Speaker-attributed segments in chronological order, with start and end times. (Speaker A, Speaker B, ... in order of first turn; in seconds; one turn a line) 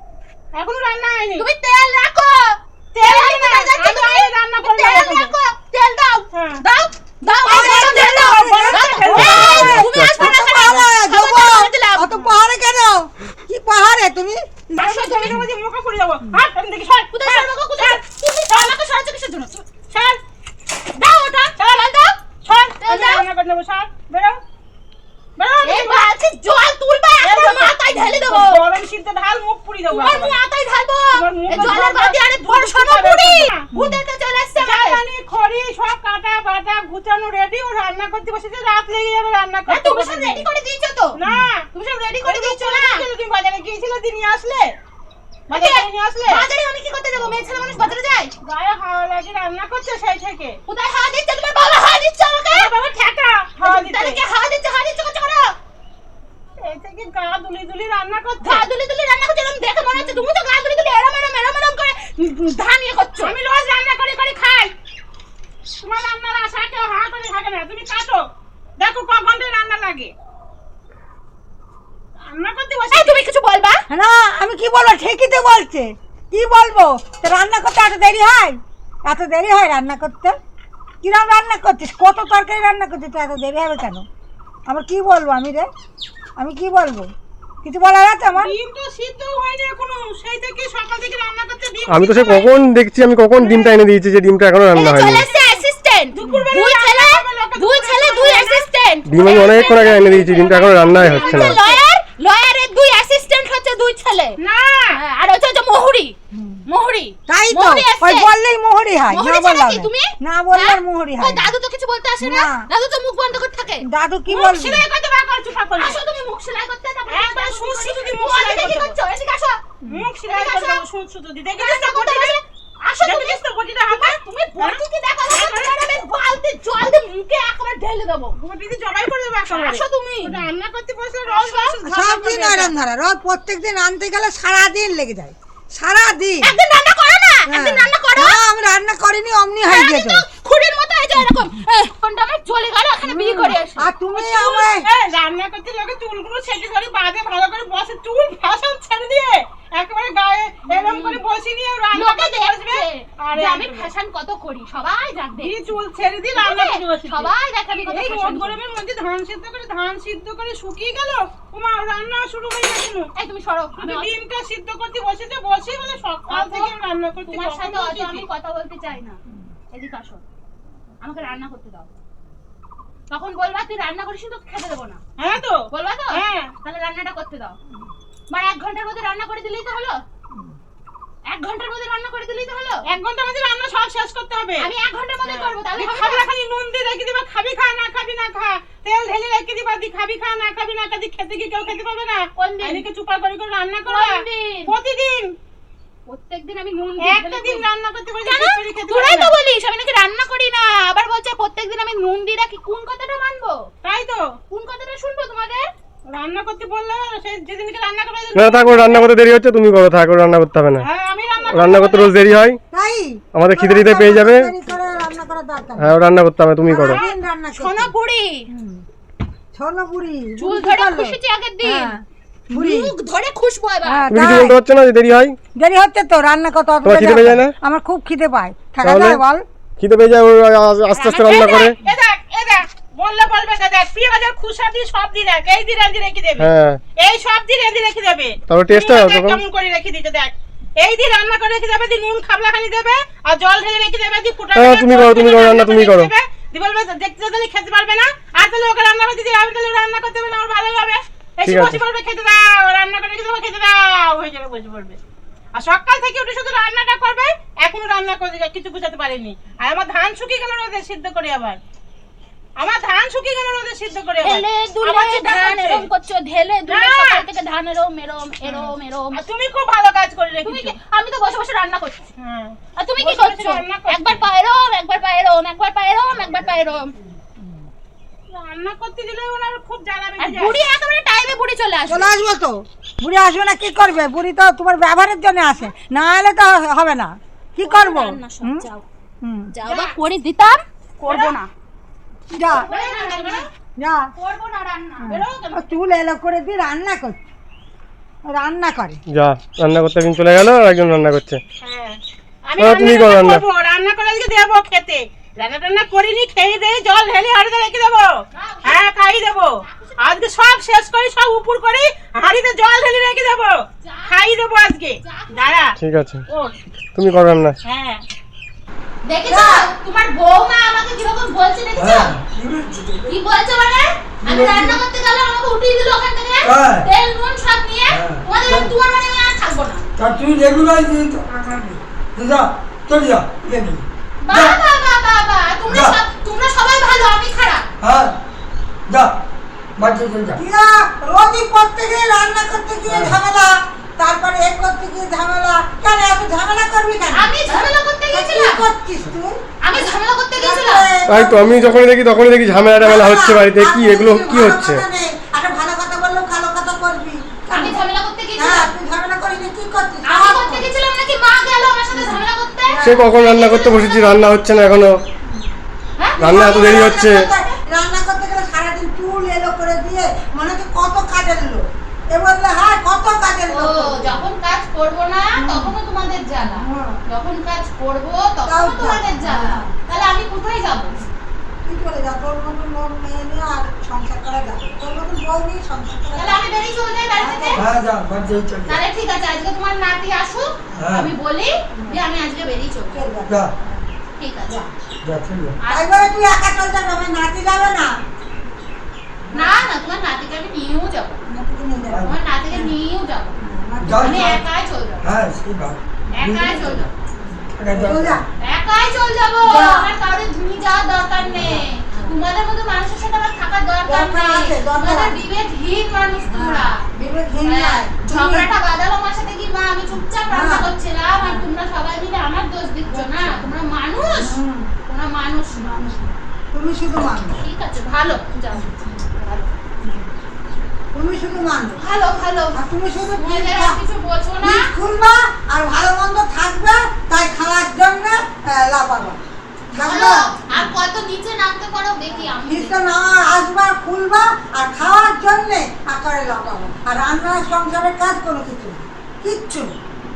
Speaker A: 0.5-1.4
Speaker B: 1.4-12.1
Speaker A: 2.9-5.3
Speaker A: 6.3-6.6
Speaker C: 7.5-15.4
Speaker A: 7.5-9.7
Speaker D: 9.2-10.3
Speaker B: 14.8-15.4
Speaker A: 14.8-18.8
Speaker B: 17.1-19.6
Speaker A: 19.9-20.2
Speaker B: 20.9-22.1
Speaker A: 21.6-24.4
Speaker B: 22.8-23.3
Speaker A: 25.4-26.0
Speaker B: 25.6-28.6
Speaker A: 27.2-30.4
Speaker B: 29.9-35.0
Speaker A: 31.1-33.6
Speaker C: 33.8-34.0
Speaker A: 34.6-40.5
Speaker B: 39.7-41.2
Speaker A: 41.2-41.7
Speaker B: 41.7-43.1
Speaker A: 42.2-44.8
Speaker B: 45.5-48.3
Speaker A: 45.5-46.4
Speaker A: 48.4-50.6
Speaker B: 50.7-52.7
Speaker A: 52.5-54.2
Speaker B: 53.6-55.6
Speaker A: 56.6-58.7
Speaker B: 58.4-63.4
Speaker A: 60.0-60.2
Speaker A: 63.2-64.7
Speaker A: 65.8-68.2
Speaker A: 68.8-70.1
Speaker A: 72.2-73.2
Speaker B: 72.9-73.8
Speaker C: 73.9-80.4
Speaker C: 81.0-84.1
Speaker C: 84.7-85.7
Speaker C: 86.4-87.1
Speaker C: 87.6-88.5
Speaker A: 88.4-92.5
Speaker D: 91.9-95.3
Speaker A: 93.4-93.8
Speaker A: 94.7-95.6
Speaker B: 94.8-99.1
Speaker A: 96.1-101.8
Speaker D: 99.1-101.6
Speaker B: 100.9-104.4
Speaker A: 104.4-105.0
Speaker B: 104.9-108.3
Speaker C: 106.3-106.6
Speaker C: 107.3-111.5
Speaker B: 109.1-113.8
Speaker C: 112.2-112.7
Speaker C: 113.8-114.8
Speaker A: 114.3-116.0
Speaker B: 115.8-119.6
Speaker A: 117.1-118.9
Speaker A: 119.9-122.4
Speaker B: 120.3-120.8
Speaker B: 121.6-128.4
Speaker A: 123.0-125.8
Speaker A: 128.4-132.7
Speaker B: 129.5-130.3
Speaker B: 131.3-131.8
Speaker C: 131.8-136.5
Speaker B: 136.4-138.4
Speaker C: 137.5-140.2
Speaker B: 139.7-144.6
Speaker C: 143.0-144.8
Speaker A: 144.2-153.9
Speaker B: 150.7-151.2
Speaker B: 151.9-155.7
Speaker A: 155.4-157.3
Speaker B: 156.3-158.6
Speaker A: 157.9-163.1
Speaker B: 163.2-164.1
Speaker A: 163.8-168.3
Speaker B: 166.3-166.7
Speaker B: 167.3-169.2
Speaker B: 169.7-170.2
Speaker B: 171.0-171.9
Speaker B: 173.1-175.0
Speaker A: 175.2-175.6
Speaker B: 175.7-177.6
Speaker A: 176.1-176.5
Speaker B: 178.3-180.0
Speaker B: 181.3-182.8
Speaker A: 182.9-184.7
Speaker B: 184.6-186.3
Speaker A: 185.3-195.3
Speaker B: 192.4-192.8
Speaker B: 193.8-194.8
Speaker B: 196.1-197.7
Speaker A: 197.0-199.3
Speaker B: 198.2-203.7
Speaker A: 203.8-204.3
Speaker B: 204.5-205.7
Speaker A: 206.1-209.1
Speaker D: 208.3-210.9
Speaker A: 210.8-212.2
Speaker D: 211.5-212.6
Speaker C: 212.7-215.9
Speaker D: 213.3-214.5
Speaker D: 215.8-217.0
Speaker C: 216.6-217.9
Speaker A: 216.8-217.1
Speaker B: 217.6-218.5
Speaker C: 218.5-218.8
Speaker C: 219.5-222.9
Speaker B: 220.4-221.9
Speaker B: 222.5-224.2
Speaker C: 223.8-224.6
Speaker D: 224.1-225.4
Speaker C: 225.6-229.4
Speaker D: 226.8-227.6
Speaker D: 228.8-229.2
Speaker D: 229.8-231.8
Speaker B: 230.9-231.8
Speaker A: 231.3-255.0
Speaker D: 236.4-236.8
Speaker D: 238.5-239.4
Speaker D: 244.6-246.1
Speaker D: 251.4-251.8
Speaker A: 255.6-261.6
Speaker A: 262.6-265.9
Speaker B: 264.2-269.2
Speaker A: 266.7-267.2
Speaker A: 268.4-270.8
Speaker B: 270.4-272.1
Speaker A: 272.2-274.1
Speaker B: 272.8-276.9
Speaker A: 278.3-280.6
Speaker B: 280.2-282.1
Speaker C: 281.9-288.6
Speaker B: 287.6-288.9
Speaker C: 289.2-289.5
Speaker B: 289.5-291.5
Speaker A: 291.1-291.3
Speaker C: 292.3-292.7
Speaker B: 292.5-293.5
Speaker A: 292.5-293.4
Speaker C: 293.8-294.1
Speaker B: 294.1-295.2
Speaker C: 295.0-297.2
Speaker A: 295.1-295.6
Speaker C: 298.3-299.0
Speaker D: 299.1-301.4
Speaker A: 301.6-315.8
Speaker D: 302.6-303.4
Speaker B: 308.3-308.8
Speaker B: 309.6-310.2
Speaker B: 313.8-314.2
Speaker B: 315.0-315.6
Speaker D: 315.8-316.2
Speaker A: 316.3-316.5
Speaker D: 316.9-317.6
Speaker A: 317.6-318.0
Speaker B: 319.1-322.1
Speaker C: 319.3-319.7
Speaker E: 321.8-323.1
Speaker B: 323.1-329.9
Speaker E: 324.2-324.8
Speaker E: 326.4-326.9
Speaker E: 327.9-328.7
Speaker E: 330.0-331.2
Speaker C: 331.3-331.8
Speaker E: 332.1-334.6
Speaker B: 334.2-337.7
Speaker E: 335.7-336.0
Speaker E: 337.8-338.2
Speaker E: 338.9-339.1
Speaker E: 339.8-340.4
Speaker C: 340.4-351.6
Speaker E: 342.9-343.2
Speaker B: 347.1-348.6
Speaker B: 349.7-350.9
Speaker D: 351.1-354.8
Speaker C: 352.8-357.8
Speaker B: 357.5-358.7
Speaker C: 358.4-360.7
Speaker B: 360.0-364.4
Speaker C: 361.9-363.1
Speaker D: 362.8-365.0
Speaker C: 365.3-365.5
Speaker B: 366.0-367.5
Speaker D: 366.2-367.3
Speaker C: 366.2-374.2
Speaker B: 373.5-381.0
Speaker C: 375.4-375.7
Speaker C: 376.4-377.0
Speaker C: 378.5-379.7
Speaker C: 381.6-386.4
Speaker B: 386.1-387.6
Speaker C: 387.2-387.7
Speaker E: 387.6-388.8
Speaker B: 388.7-393.1
Speaker E: 390.8-391.1
Speaker C: 391.8-392.0
Speaker C: 392.9-394.0
Speaker B: 394.2-394.6
Speaker E: 395.0-395.6
Speaker B: 395.6-396.1
Speaker C: 395.7-397.9
Speaker C: 399.2-399.6
Speaker B: 399.3-401.2
Speaker C: 401.3-402.8
Speaker E: 401.9-402.1
Speaker B: 402.0-403.4
Speaker C: 403.4-404.4
Speaker E: 403.8-404.4
Speaker B: 404.0-405.1
Speaker E: 405.0-406.9
Speaker B: 406.1-406.9
Speaker C: 407.1-408.2
Speaker E: 407.6-408.2
Speaker B: 408.4-416.8
Speaker C: 409.4-409.9
Speaker C: 411.3-412.1
Speaker C: 413.9-415.2
Speaker C: 416.3-418.5
Speaker B: 417.4-425.8
Speaker C: 420.3-420.7
Speaker C: 422.9-423.5
Speaker C: 424.1-424.7
Speaker C: 425.6-427.4
Speaker B: 427.3-429.5
Speaker C: 429.8-430.1
Speaker C: 430.9-431.8
Speaker B: 431.8-432.6
Speaker C: 432.5-433.8
Speaker B: 433.1-434.7
Speaker C: 434.4-439.2
Speaker C: 439.7-440.6
Speaker B: 439.7-442.8
Speaker C: 442.2-449.7